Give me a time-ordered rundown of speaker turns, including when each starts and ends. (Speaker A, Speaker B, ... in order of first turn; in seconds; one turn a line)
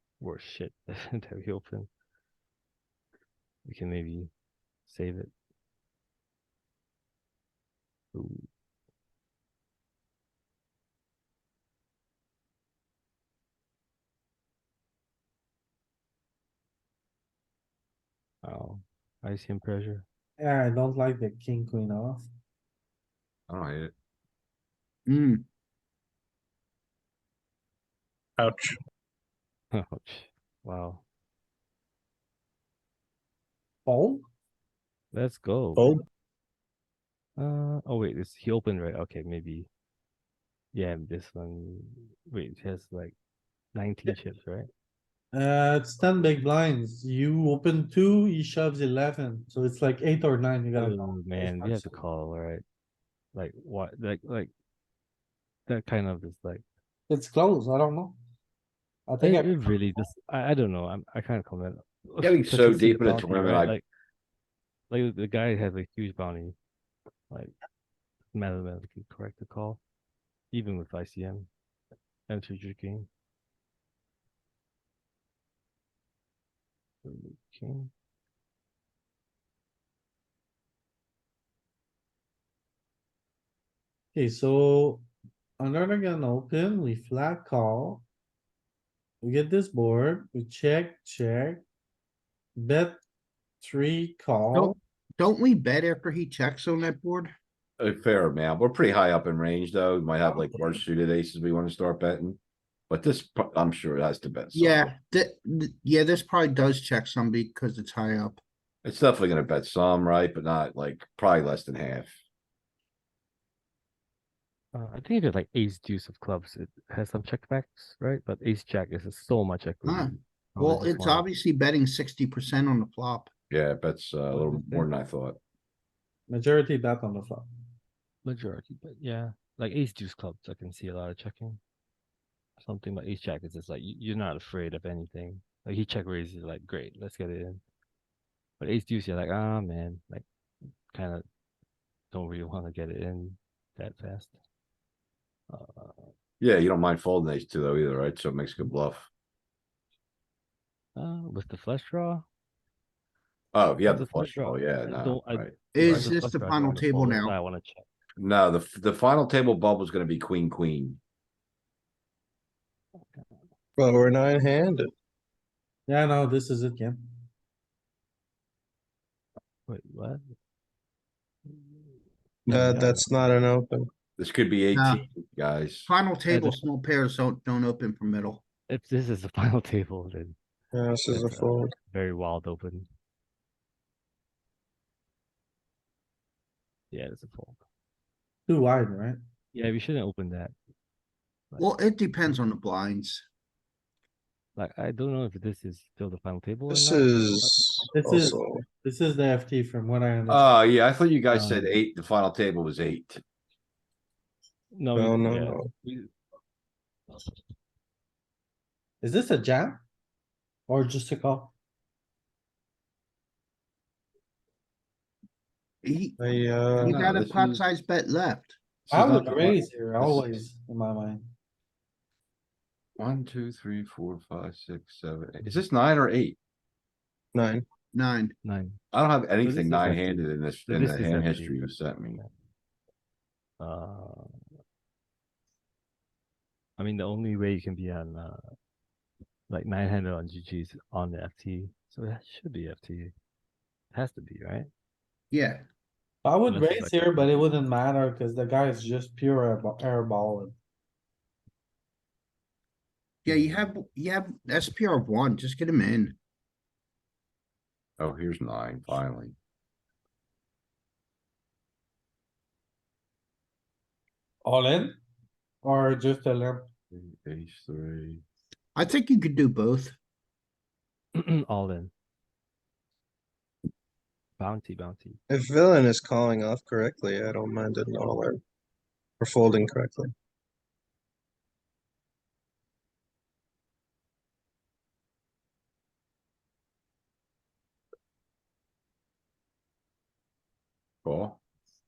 Speaker A: 0.2-1.9
Speaker A: 3.6-4.3
Speaker A: 4.8-5.3
Speaker A: 8.1-8.5
Speaker A: 18.4-20.1
Speaker B: 20.4-22.2
Speaker C: 23.5-23.9
Speaker D: 25.1-25.4
Speaker E: 28.4-28.7
Speaker A: 29.7-31.0
Speaker B: 33.9-34.2
Speaker A: 35.1-35.9
Speaker E: 35.8-36.0
Speaker A: 37.4-39.7
Speaker A: 40.7-43.1
Speaker A: 43.7-44.7
Speaker B: 45.3-51.9
Speaker A: 50.8-52.6
Speaker A: 53.3-54.5
Speaker A: 55.7-56.6
Speaker B: 57.1-58.2
Speaker B: 59.1-59.6
Speaker A: 59.2-63.8
Speaker C: 62.2-63.8
Speaker A: 64.9-66.5
Speaker A: 68.3-69.8
Speaker A: 70.5-71.5
Speaker A: 72.3-73.1
Speaker A: 77.0-77.9
Speaker B: 84.1-85.1
Speaker B: 85.6-88.0
Speaker B: 89.2-91.6
Speaker B: 92.5-93.0
Speaker B: 93.6-94.8
Speaker D: 94.5-97.3
Speaker C: 97.8-102.4
Speaker C: 102.9-104.9
Speaker D: 104.5-108.4
Speaker C: 108.8-112.1
Speaker A: 114.7-121.2
Speaker D: 119.8-123.3
Speaker C: 123.5-125.4
Speaker A: 124.3-124.9
Speaker B: 126.3-127.4
Speaker A: 128.2-131.6
Speaker A: 132.6-137.6
Speaker A: 138.6-140.2
Speaker A: 140.9-141.2
Speaker A: 142.1-144.3
Speaker A: 145.5-146.1
Speaker C: 146.4-149.1
Speaker A: 150.9-152.2
Speaker C: 153.5-156.1
Speaker A: 153.8-157.8
Speaker D: 155.7-157.3
Speaker C: 158.2-161.0
Speaker E: 163.8-164.9
Speaker B: 165.9-167.0
Speaker A: 169.7-170.2
Speaker E: 172.4-173.9
Speaker A: 172.5-173.1
Speaker C: 174.2-175.9
Speaker D: 174.7-175.0
Speaker D: 175.9-178.4
Speaker A: 176.3-176.6
Speaker A: 178.7-180.4
Speaker E: 180.7-181.7
Speaker A: 181.1-182.9
Speaker A: 186.9-187.6
Speaker B: 188.5-189.2
Speaker A: 189.5-190.5
Speaker D: 191.6-193.2
Speaker A: 194.6-197.5
Speaker E: 196.7-198.6
Speaker B: 197.9-200.5
Speaker C: 200.3-203.2
Speaker A: 201.3-201.8
Speaker A: 204.7-206.1
Speaker E: 204.9-205.7
Speaker B: 209.0-209.8
Speaker B: 210.7-211.5
Speaker D: 215.8-216.2
Speaker E: 216.2-217.1
Speaker D: 216.8-218.6
Speaker B: 216.8-217.2
Speaker C: 216.9-217.6
Speaker C: 218.8-220.4
Speaker B: 218.9-221.2
Speaker C: 223.0-226.4
Speaker E: 227.3-227.6
Speaker D: 227.9-228.3
Speaker A: 228.4-228.8
Speaker C: 228.9-232.2
Speaker A: 229.4-232.3
Speaker A: 233.6-234.4
Speaker A: 236.8-238.5
Speaker A: 239.5-243.1
Speaker A: 243.9-244.7
Speaker D: 245.3-245.7
Speaker B: 246.2-250.6
Speaker A: 246.5-247.5
Speaker D: 253.2-256.1
Speaker C: 258.0-259.4
Speaker B: 264.4-265.0
Speaker B: 265.6-266.7
Speaker C: 266.9-268.2
Speaker D: 268.8-269.9
Speaker A: 271.1-271.9
Speaker A: 274.4-275.2
Speaker E: 275.3-278.4
Speaker E: 279.2-280.1
Speaker C: 291.0-291.4